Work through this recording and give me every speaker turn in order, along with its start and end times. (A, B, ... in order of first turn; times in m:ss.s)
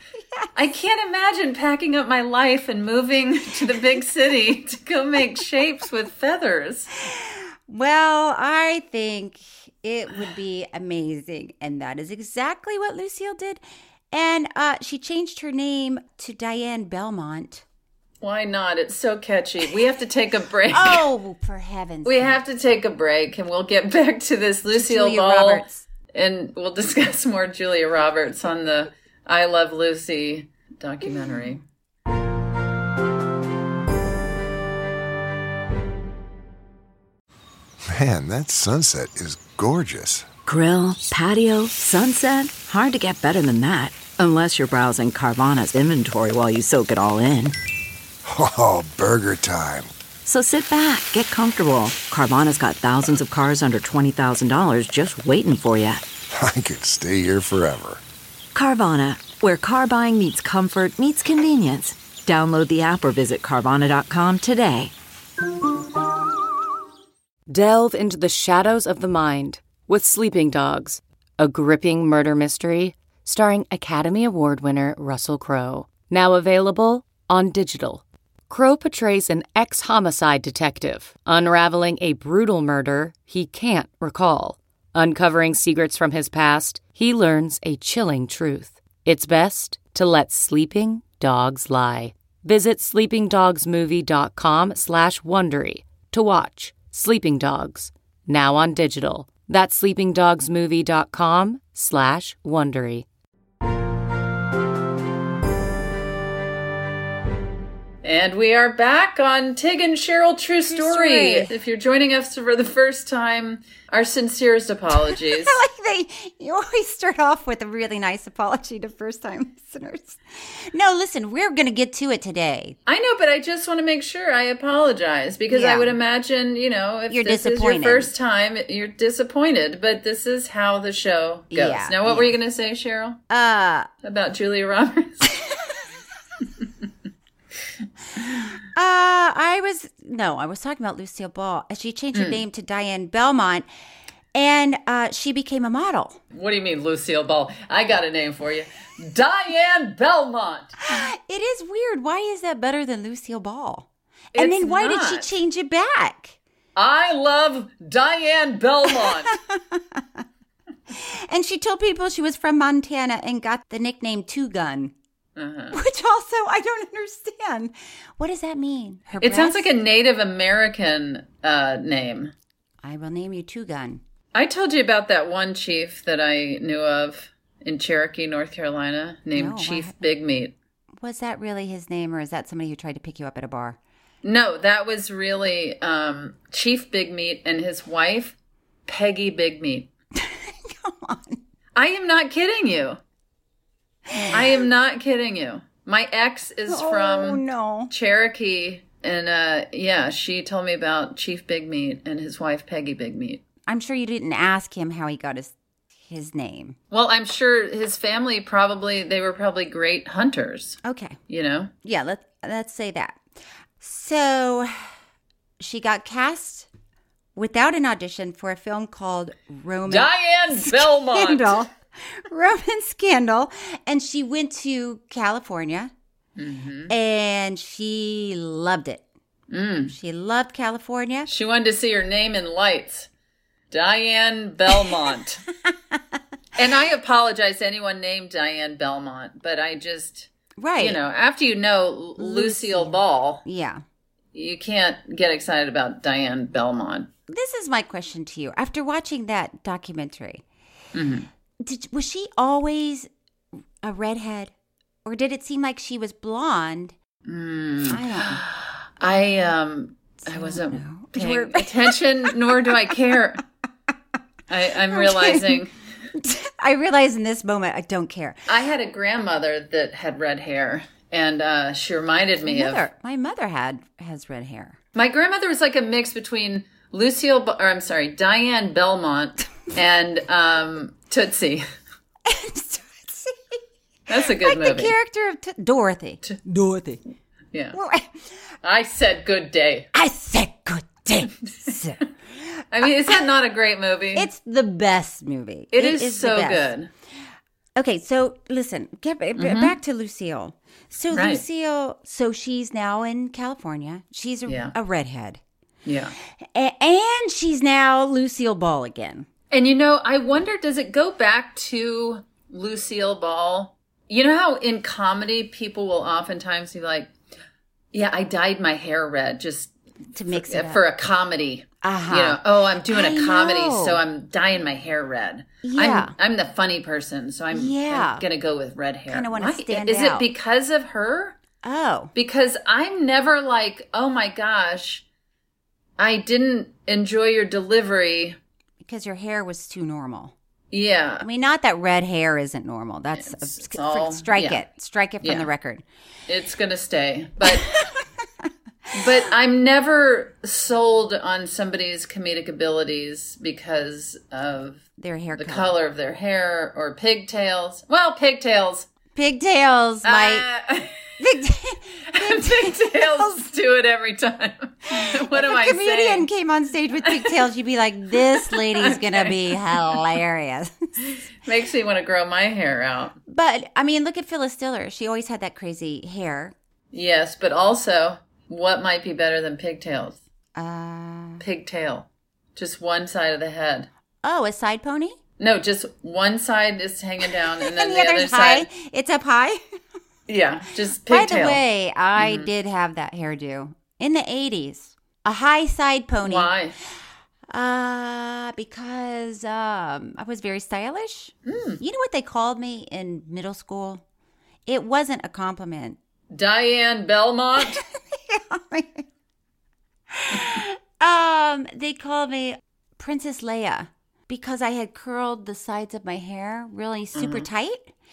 0:00.2-0:00.5 A
0:00.6-0:06.9 B
0:07.0-0:17.6 A
0:18.2-0:21.1 B
0:20.7-0:22.4 A
0:22.0-0:31.6 B
0:24.7-0:25.8 A
0:31.2-0:31.5 A
0:37.9-0:40.3 C
0:40.5-0:47.6 D
0:48.2-0:49.9 C
0:50.2-0:56.0 D
0:56.3-0:58.0 C
0:58.5-1:04.9 D
1:07.5-1:43.1 E
1:48.0-1:55.6 B
1:50.6-1:51.5 A
1:55.0-2:02.8 A
2:02.9-2:13.2 B
2:05.5-2:06.0 A
2:07.1-2:08.1 A
2:11.5-2:12.3 A
2:13.3-2:13.9 A
2:14.0-2:15.3 B
2:18.7-2:23.7 A
2:22.1-2:22.4 B
2:24.3-2:26.2 A
2:26.3-2:30.8 B
2:30.8-2:36.4 A
2:34.4-2:35.3 B
2:36.8-2:39.4 B
2:38.9-2:40.2 A
2:40.9-2:44.9 A
2:45.4-2:45.8 B
2:45.7-2:49.7 A
2:49.2-2:52.3 B
2:52.8-2:54.0 A
2:54.3-3:00.5 B
2:59.4-3:00.0 A
3:01.0-3:03.8 A
3:04.2-3:08.4 B
3:08.9-3:09.9 B
3:10.1-3:11.4 A
3:11.8-3:13.0 B
3:14.1-3:14.5 A
3:14.2-3:23.4 B
3:16.7-3:17.9 A
3:23.7-3:26.8 A
3:26.9-3:31.7 B
3:30.8-3:31.2 A
3:31.8-3:33.2 A
3:33.8-3:34.9 A
3:35.6-3:36.7 A
3:37.4-3:45.9 A
3:39.9-3:41.6 B
3:46.4-3:46.9 B
3:46.9-3:49.0 A
3:49.5-3:49.9 B
3:49.9-3:51.3 A
3:51.3-3:53.1 B
3:53.7-3:55.4 B
3:55.6-3:56.2 A
3:56.6-4:03.4 B
4:00.6-4:01.0 A
4:02.2-4:03.8 A
4:04.3-4:07.1 B
4:07.3-4:10.4 A
4:10.9-4:11.3 B
4:11.6-4:13.1 A
4:13.8-4:14.5 A
4:15.0-4:17.0 A
4:17.3-4:23.4 B
4:17.8-4:18.4 A
4:20.2-4:22.8 A
4:24.5-4:25.7 B
4:24.9-4:25.6 A
4:26.2-4:28.5 A
4:28.5-4:32.9 B
4:32.4-4:34.8 A
4:35.0-4:41.6 B
4:42.3-4:43.6 A
4:44.1-4:45.0 B
4:44.1-4:47.0 A
4:47.5-4:47.8 B
4:47.7-4:48.4 A
4:48.6-4:49.9 B
4:49.9-4:53.2 A
4:52.7-4:54.3 B
4:54.1-4:56.7 A
4:55.7-4:56.9 B
4:57.8-5:05.4 A
4:59.4-4:59.8 B
5:01.1-5:01.4 B
5:04.5-5:04.7 B
5:05.9-5:06.2 B
5:06.5-5:09.3 A
5:09.5-5:17.1 B
5:17.9-5:19.7 B
5:20.1-5:20.8 A
5:20.3-5:31.4 B
5:21.8-5:24.0 A
5:25.6-5:26.1 A
5:27.5-5:28.2 A
5:29.1-5:30.3 A
5:31.6-5:32.1 A
5:32.1-5:35.0 B
5:36.0-5:38.4 B
5:38.8-5:40.3 A
5:40.7-5:41.2 B
5:41.2-5:45.8 A
5:43.2-5:44.6 B
5:45.2-5:45.5 B
5:46.3-5:47.7 B
5:47.4-5:49.2 A
5:48.9-5:54.8 B
5:55.0-5:55.7 A
5:55.3-5:58.9 B
5:59.1-6:00.5 A
6:00.0-6:01.1 B
6:01.2-6:03.4 A
6:02.1-6:06.3 B
6:04.9-6:10.8 A
6:07.0-6:07.4 B
6:08.1-6:10.0 B
6:11.0-6:13.2 B
6:13.3-6:16.5 A
6:16.9-6:20.2 B
6:20.6-6:21.4 A
6:21.4-6:23.9 B
6:24.2-6:25.2 A
6:25.4-6:28.7 B
6:27.6-6:29.6 A
6:30.3-6:31.6 B
6:31.1-6:36.6 A
6:32.2-6:32.5 B
6:36.2-6:36.8 B
6:37.5-6:44.0 A
6:41.5-6:41.8 B
6:44.6-6:46.0 A
6:46.3-6:47.8 B
6:47.8-6:49.1 A
6:50.1-6:57.9 A
6:50.3-6:50.6 B
6:57.1-6:57.5 B